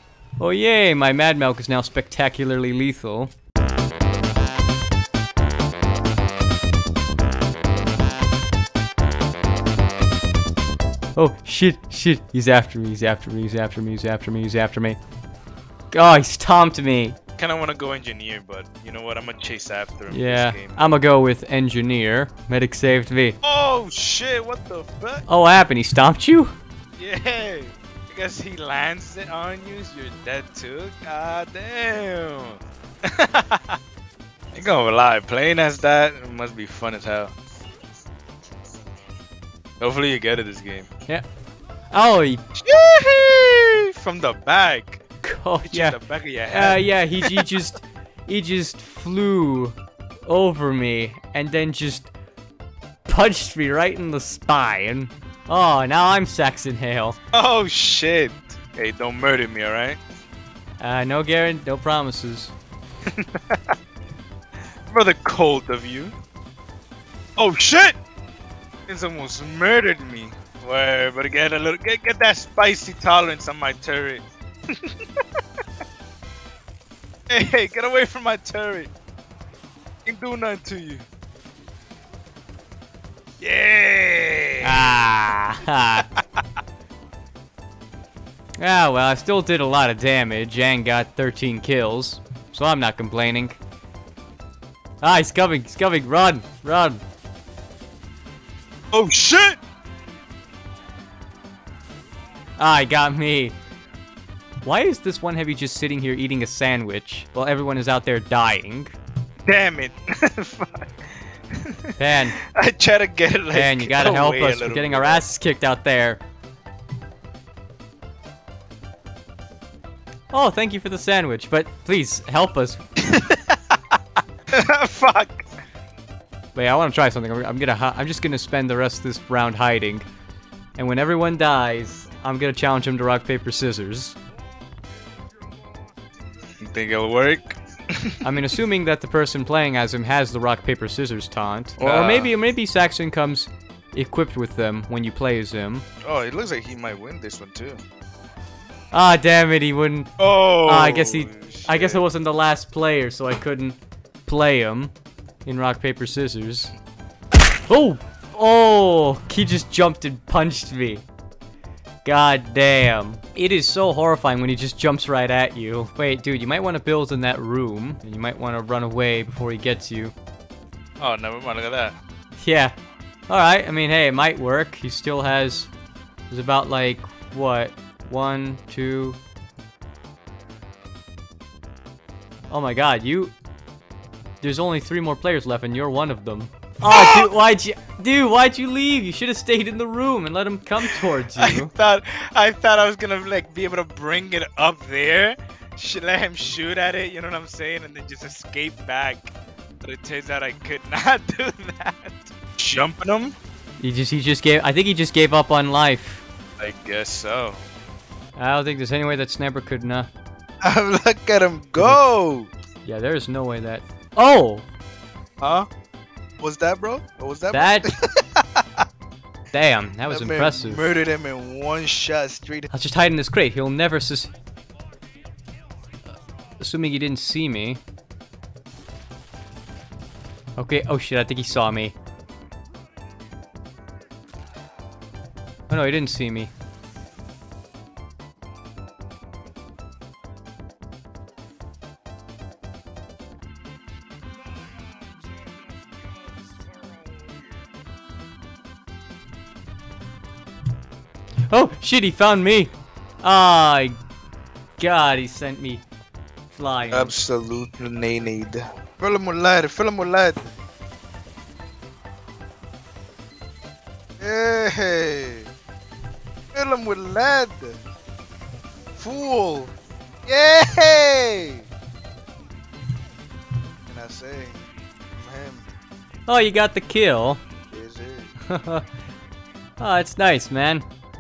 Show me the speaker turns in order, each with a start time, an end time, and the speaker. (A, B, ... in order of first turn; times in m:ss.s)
0:00.4-0:03.3 A
0:11.2-0:15.0 A
0:15.9-0:17.2 A
0:17.4-0:20.9 B
0:20.1-0:23.4 A
0:23.4-0:25.2 B
0:25.3-0:26.6 A
0:27.0-0:33.8 B
0:34.5-0:37.3 B
0:39.8-0:40.9 B
0:41.9-0:42.4 A
0:42.6-0:45.0 B
0:45.2-0:52.1 A
0:45.7-0:47.5 B
0:53.1-0:57.2 A
0:57.3-1:00.0 B
1:00.8-1:02.5 A
1:03.1-1:03.7 B
1:04.9-1:06.2 B
1:07.4-1:08.0 B
1:08.9-1:15.2 B
1:17.3-1:18.9 B
1:20.1-1:21.0 B
1:23.4-1:24.9 B
1:24.6-1:26.1 A
1:26.0-1:26.2 B
1:28.6-1:33.6 A
1:35.0-1:37.0 A
1:38.9-1:39.6 B
1:42.6-1:43.6 A
1:44.6-1:49.0 A
1:49.4-1:51.0 B
1:51.6-1:55.2 B
1:52.0-1:52.4 A
1:53.5-1:56.2 A
2:00.3-2:02.8 A
2:03.1-2:03.8 B
2:04.5-2:05.5 B
2:06.6-2:10.1 A
2:10.8-2:14.2 A
2:16.6-2:18.4 B
2:18.2-2:25.8 A
2:21.8-2:22.3 B
2:26.0-2:27.8 B
2:28.9-2:30.1 A
2:30.2-2:32.0 B
2:30.6-2:34.9 A
2:35.4-2:36.7 A
2:37.7-2:41.0 A
2:42.0-2:50.1 A
2:51.0-2:52.0 B
2:52.4-2:52.8 A
2:53.3-2:55.7 A
2:56.3-2:59.2 A
3:02.5-3:03.3 A
3:04.4-3:11.7 A
3:06.9-3:07.3 B
3:10.8-3:23.4 B
3:23.8-3:26.3 A
3:26.6-3:27.6 B
3:28.4-3:30.1 A
3:30.6-3:32.5 B
3:32.8-3:34.7 A
3:35.4-3:35.7 B
3:36.4-3:38.8 B
3:37.5-3:37.9 A
3:39.5-3:40.9 A
3:40.1-3:42.7 B
3:42.7-3:44.3 A
3:46.6-3:47.8 A
3:50.6-3:52.0 A
3:55.7-3:56.5 A
4:11.5-4:14.0 A
4:14.8-4:15.9 A
4:16.5-4:17.2 A
4:16.9-4:20.5 B
4:24.2-4:25.5 B
4:26.5-4:27.8 B
4:29.0-4:29.7 B
4:30.2-4:31.7 B
4:33.9-4:35.7 B
4:36.3-4:37.4 A
4:37.7-4:38.4 B
4:38.5-4:38.8 A
4:39.8-4:40.9 A